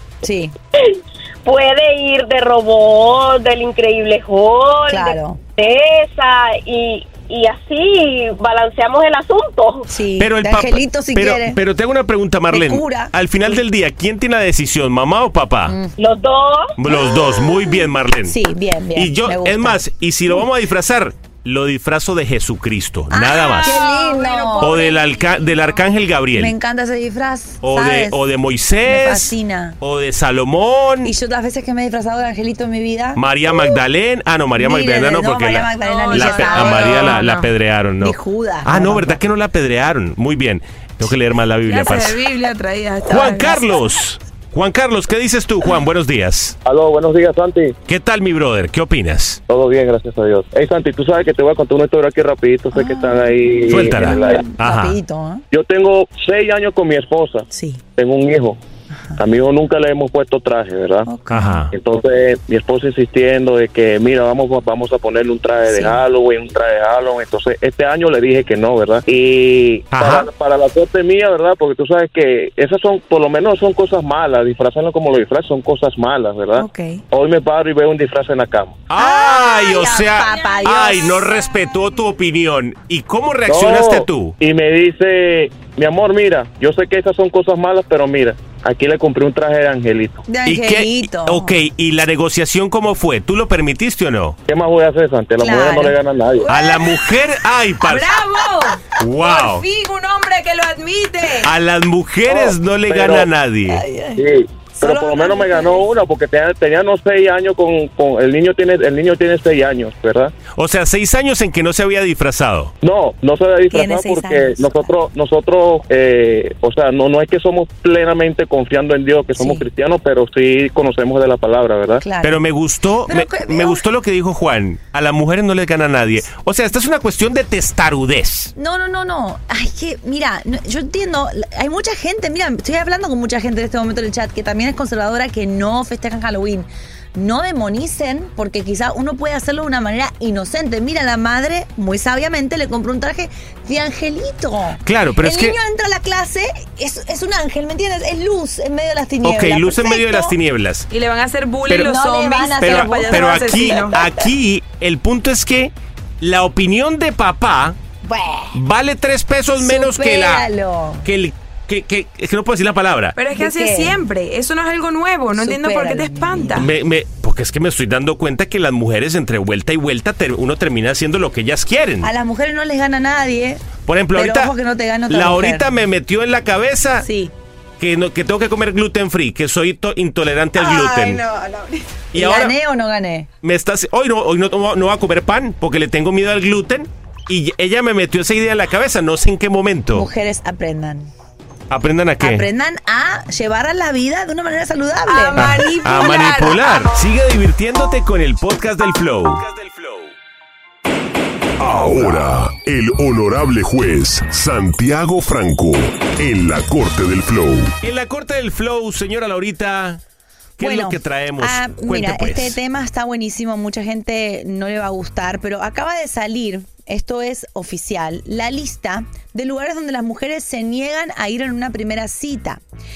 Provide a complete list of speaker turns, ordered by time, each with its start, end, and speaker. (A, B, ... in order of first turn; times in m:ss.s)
0:00.2-0:00.5 A
0:01.4-0:09.9 B
0:04.9-0:05.4 A
0:09.9-0:11.6 A
0:10.2-0:15.8 C
0:12.5-0:13.1 A
0:15.7-0:15.9 A
0:16.0-0:16.7 B
0:16.8-0:18.4 C
0:16.9-0:19.8 A
0:19.0-0:23.8 C
0:23.1-0:24.8 A
0:23.4-0:25.5 D
0:24.6-0:26.5 C
0:26.4-0:28.2 A
0:27.6-0:31.1 C
0:28.8-0:29.8 A
0:31.0-0:33.5 A
0:33.2-0:42.2 C
0:34.6-0:37.4 A
0:35.8-0:37.4 D
0:38.0-0:39.2 A
0:41.7-0:43.7 D
0:43.0-0:46.6 C
0:46.6-0:47.8 E
0:47.9-0:49.4 C
0:49.5-0:54.5 E
0:52.7-0:55.4 A
0:53.7-0:55.0 C
0:55.5-0:58.6 E
0:57.5-0:57.8 A
0:59.2-1:01.1 E
1:01.1-1:01.6 A
1:01.3-1:01.7 C
1:01.7-1:18.9 E
1:05.7-1:06.0 A
1:09.9-1:10.3 C
1:16.6-1:17.0 A
1:18.9-1:24.4 C
1:19.0-1:21.2 A
1:20.3-1:21.6 D
1:23.5-1:30.2 E
1:30.3-1:31.5 A
1:30.4-1:34.4 C
1:34.5-1:36.5 E
1:35.4-1:36.0 A
1:36.5-1:36.8 A
1:36.5-1:38.2 C
1:37.8-1:41.5 D
1:39.0-1:39.6 C
1:41.4-1:43.8 C
1:42.3-1:43.3 E
1:43.7-1:45.9 A
1:44.2-1:50.3 E
1:50.6-1:52.7 C
1:52.8-2:02.0 E
1:53.7-1:54.9 A
1:59.4-1:59.6 A
2:02.0-2:02.4 A
2:02.2-2:08.5 C
2:03.1-2:03.8 A
2:08.6-2:30.4 A
2:24.8-2:25.6 C
2:29.2-2:30.9 C
2:30.9-2:34.0 D
2:31.8-2:34.0 A
2:32.6-2:37.8 C
2:38.0-2:38.6 A
2:38.5-2:40.4 C
2:39.6-2:41.1 A
2:41.0-2:43.2 C
2:43.2-2:46.7 D
2:43.3-2:44.0 A
2:45.3-2:46.7 A
2:46.6-2:52.1 C
2:52.0-2:55.7 A
2:53.9-2:54.5 C
2:55.1-2:57.1 C
2:57.0-2:57.3 A
2:57.8-3:01.2 C
3:00.6-3:01.8 D
3:02.1-3:02.6 C
3:02.1-3:03.3 A
3:03.4-3:10.1 C
3:09.9-3:11.1 A
3:11.7-3:12.5 C
3:12.2-3:15.6 A
3:15.1-3:16.9 D
3:15.4-3:20.1 C
3:21.6-3:27.8 F
3:21.8-3:22.2 C
3:27.8-3:30.0 C
3:30.6-3:32.6 C
3:30.6-3:42.6 A